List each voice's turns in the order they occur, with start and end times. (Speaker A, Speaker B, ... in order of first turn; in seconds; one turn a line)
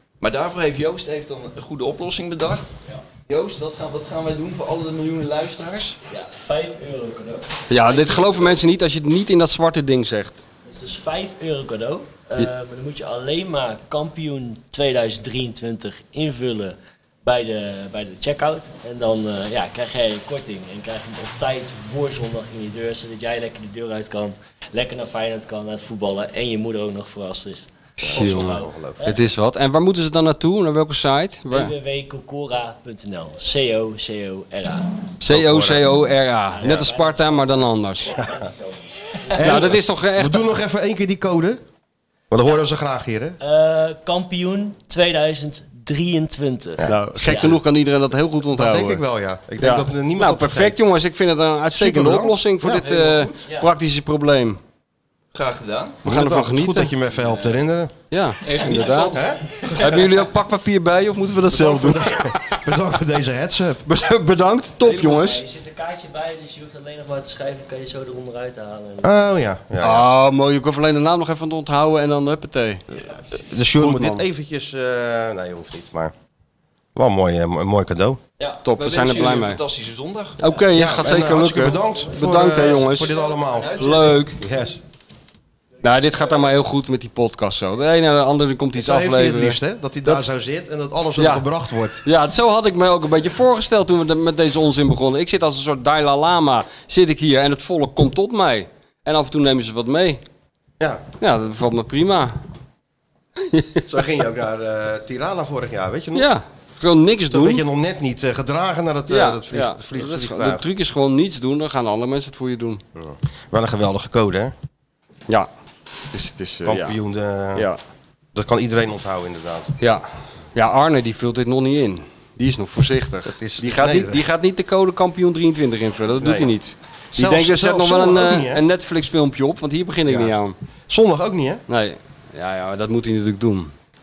Speaker A: 0.2-6.0
Speaker B: 6.1-8.4
Speaker C: 7.7-10.4
Speaker B: 10.7-29.2
Speaker D: 28.0-29.0
Speaker C: 28.0-31.7
Speaker B: 31.5-35.0
Speaker C: 35.2-38.1
Speaker D: 35.3-36.0
Speaker B: 36.6-39.6
Speaker D: 36.6-36.9
Speaker D: 39.3-41.6
Speaker C: 39.3-40.5
Speaker D: 42.3-43.4
Speaker B: 43.4-47.6
Speaker D: 46.8-47.5
Speaker C: 46.9-49.0
Speaker D: 48.5-50.8
Speaker C: 49.6-54.6
Speaker D: 51.7-52.9
Speaker A: 52.8-53.4
Speaker A: 55.3-56.0
Speaker C: 56.0-56.9
Speaker D: 56.0-57.9
Speaker C: 58.1-59.2
Speaker A: 58.4-60.1
Speaker D: 59.1-60.0
Speaker C: 59.8-62.6
Speaker D: 61.5-63.9
Speaker C: 63.9-65.5
Speaker B: 64.8-69.1
Speaker D: 69.0-70.1
Speaker C: 69.8-72.8
Speaker D: 73.3-76.1
Speaker C: 73.7-74.2
Speaker D: 77.0-78.2
Speaker A: 78.4-80.4
Speaker C: 78.6-79.6
Speaker C: 80.4-83.2
Speaker D: 80.7-84.8
Speaker A: 83.5-84.2
Speaker C: 83.8-84.4
Speaker C: 85.8-90.3
Speaker D: 88.8-92.0
Speaker C: 91.2-91.5
Speaker C: 92.0-100.2
Speaker D: 100.8-101.0
Speaker C: 101.2-102.4
Speaker C: 103.4-103.9
Speaker D: 103.9-106.3
Speaker C: 106.2-107.6
Speaker D: 107.3-110.7
Speaker C: 109.1-112.8
Speaker D: 113.0-114.5
Speaker C: 116.1-117.0
Speaker D: 116.7-117.7
Speaker D: 118.3-119.7
Speaker C: 119.8-130.6
Speaker D: 123.3-124.2
Speaker D: 126.2-126.5
Speaker D: 127.1-128.6
Speaker D: 130.1-130.3
Speaker D: 130.9-131.6
Speaker C: 131.7-133.7